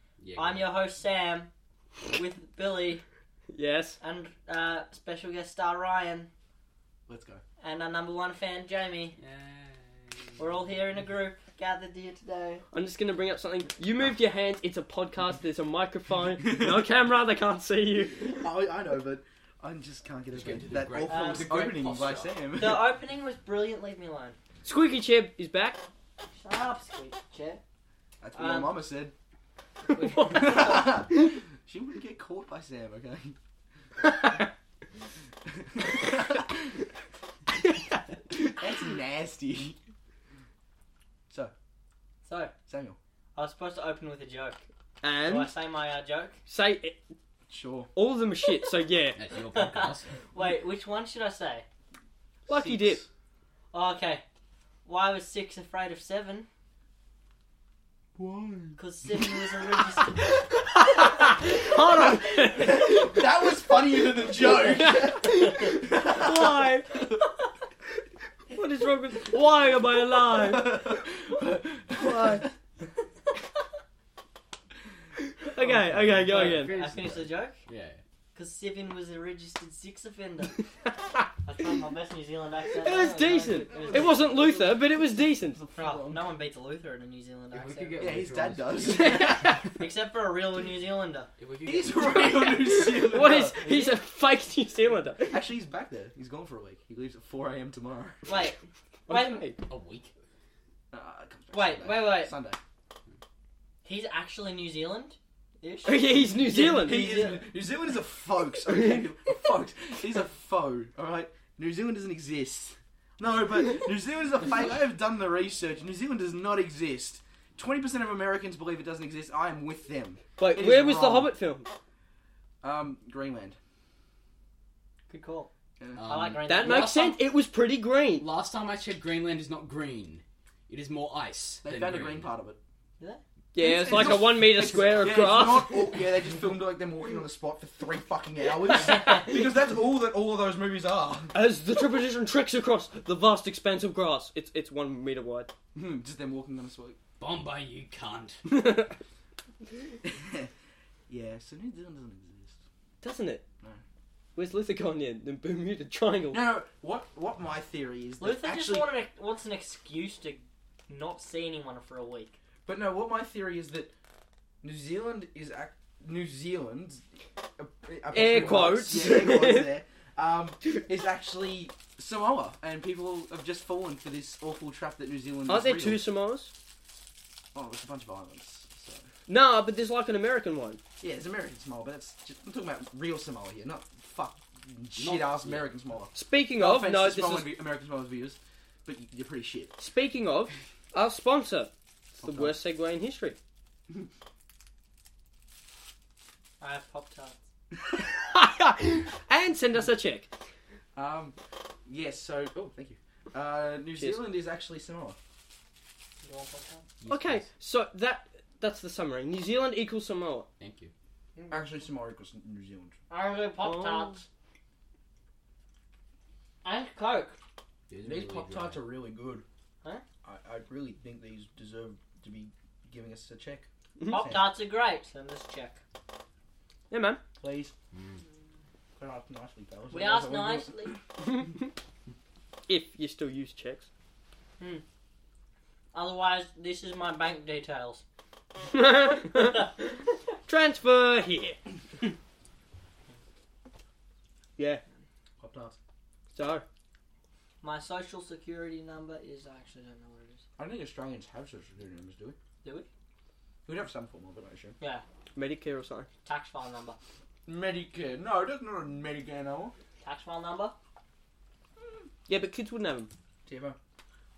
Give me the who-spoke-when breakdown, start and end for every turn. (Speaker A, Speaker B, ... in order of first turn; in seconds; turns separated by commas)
Speaker A: 0.2-0.7, Speaker B: 0.4-1.5, Speaker B: 2.1-3.0, Speaker C: 3.5-4.0, Speaker B: 4.0-6.3, Speaker D: 7.1-7.4, Speaker B: 7.6-9.2, Speaker A: 9.2-10.4, Speaker B: 10.4-12.6, Speaker C: 12.7-18.5, Speaker D: 16.4-16.9, Speaker D: 18.2-22.9, Speaker A: 20.3-22.3, Speaker B: 21.1-21.6, Speaker B: 22.6-24.4, Speaker C: 24.6-25.8, Speaker B: 26.4-27.6, Speaker D: 28.2-29.1, Speaker B: 28.3-28.8, Speaker B: 29.9-30.9, Speaker C: 30.0-30.9, Speaker D: 30.2-33.4, Speaker D: 35.5-36.6, Speaker D: 38.6-39.8, Speaker B: 42.2-42.5, Speaker D: 42.7-43.0, Speaker B: 43.4-44.6, Speaker C: 45.0-45.5, Speaker B: 45.2-46.4, Speaker C: 46.5-47.0, Speaker D: 47.5-47.9, Speaker C: 47.9-49.2, Speaker A: 49.1-50.2, Speaker B: 49.4-51.7, Speaker D: 52.5-53.1, Speaker C: 52.5-53.0, Speaker B: 53.7-54.2, Speaker B: 54.9-56.5, Speaker C: 58.2-58.7, Speaker D: 58.4-58.7, Speaker B: 58.8-60.2, Speaker C: 60.5-63.3, Speaker D: 61.4-66.7, Speaker C: 64.2-67.1, Speaker C: 68.5-71.0, Speaker D: 70.1-72.5, Speaker C: 72.0-72.5, Speaker C: 75.4-76.8, Speaker D: 75.6-76.4, Speaker A: 76.2-78.0, Speaker B: 76.3-77.6, Speaker B: 78.3-80.5, Speaker C: 80.8-81.3, Speaker B: 81.4-84.2, Speaker C: 82.8-85.6, Speaker D: 83.5-86.3, Speaker B: 85.8-88.1, Speaker A: 87.5-89.4, Speaker D: 88.0-89.5, Speaker C: 88.9-89.7, Speaker B: 89.8-91.3, Speaker A: 91.4-92.3, Speaker D: 91.6-94.0, Speaker C: 92.0-95.4, Speaker D: 95.3-98.3, Speaker B: 98.3-99.5, Speaker C: 99.1-99.6, Speaker A: 99.7-100.1, Speaker D: 100.9-102.6, Speaker B: 101.5-102.3, Speaker B: 103.8-106.0, Speaker C: 105.8-107.1, Speaker D: 106.5-121.3, Speaker B: 106.5-107.4, Speaker C: 108.7-109.0, Speaker C: 120.4-121.7, Speaker D: 122.6-123.6, Speaker B: 125.1-125.5, Speaker D: 125.8-126.1, Speaker A: 126.0-127.2, Speaker B: 126.0-127.0, Speaker C: 126.5-128.3, Speaker A: 128.2-132.3, Speaker D: 131.6-132.6, Speaker C: 133.5-136.1, Speaker D: 133.6-141.3, Speaker C: 141.3-145.5, Speaker D: 145.8-147.0, Speaker A: 147.2-148.4, Speaker C: 148.5-148.9, Speaker D: 150.0-150.5, Speaker D: 151.1-152.6, Speaker C: 153.0-153.4, Speaker C: 154.4-156.5, Speaker D: 156.3-159.0, Speaker B: 158.2-162.3, Speaker D: 162.7-163.9, Speaker D: 164.6-167.1, Speaker D: 167.6-176.0, Speaker C: 168.1-169.7, Speaker C: 175.5-176.5, Speaker D: 177.5-179.1, Speaker C: 179.3-180.8, Speaker D: 181.0-189.8, Speaker A: 185.0-185.8, Speaker C: 186.1-187.5, Speaker C: 189.8-191.7, Speaker D: 192.1-192.6, Speaker C: 192.2-193.4, Speaker B: 196.6-197.4, Speaker C: 198.0-200.3, Speaker D: 200.9-205.2, Speaker B: 206.2-206.8, Speaker A: 207.0-207.5, Speaker C: 207.1-210.5, Speaker A: 210.6-210.9, Speaker B: 211.3-211.7, Speaker D: 211.5-213.0, Speaker B: 213.1-214.3, Speaker C: 213.6-214.2, Speaker B: 216.6-217.4, Speaker A: 217.9-218.8, Speaker D: 218.0-219.5, Speaker D: 220.2-224.5, Speaker C: 224.0-224.2, Speaker B: 224.1-225.8, Speaker C: 226.9-227.2, Speaker D: 227.4-227.7, Speaker A: 227.9-228.2, Speaker D: 229.0-230.7, Speaker B: 229.9-230.9, Speaker C: 231.2-231.7, Speaker C: 232.7-233.9, Speaker B: 235.9-238.0, Speaker C: 238.7-239.8, Speaker C: 240.5-241.6, Speaker C: 244.6-244.8, Speaker D: 245.4-245.8, Speaker C: 246.3-246.7, Speaker B: 247.6-250.4, Speaker D: 250.6-252.4, Speaker B: 252.6-252.9, Speaker D: 253.7-254.8, Speaker C: 255.3-256.1, Speaker B: 256.2-257.0, Speaker D: 257.5-259.8, Speaker B: 260.0-260.8, Speaker C: 262.3-263.1, Speaker D: 263.4-263.8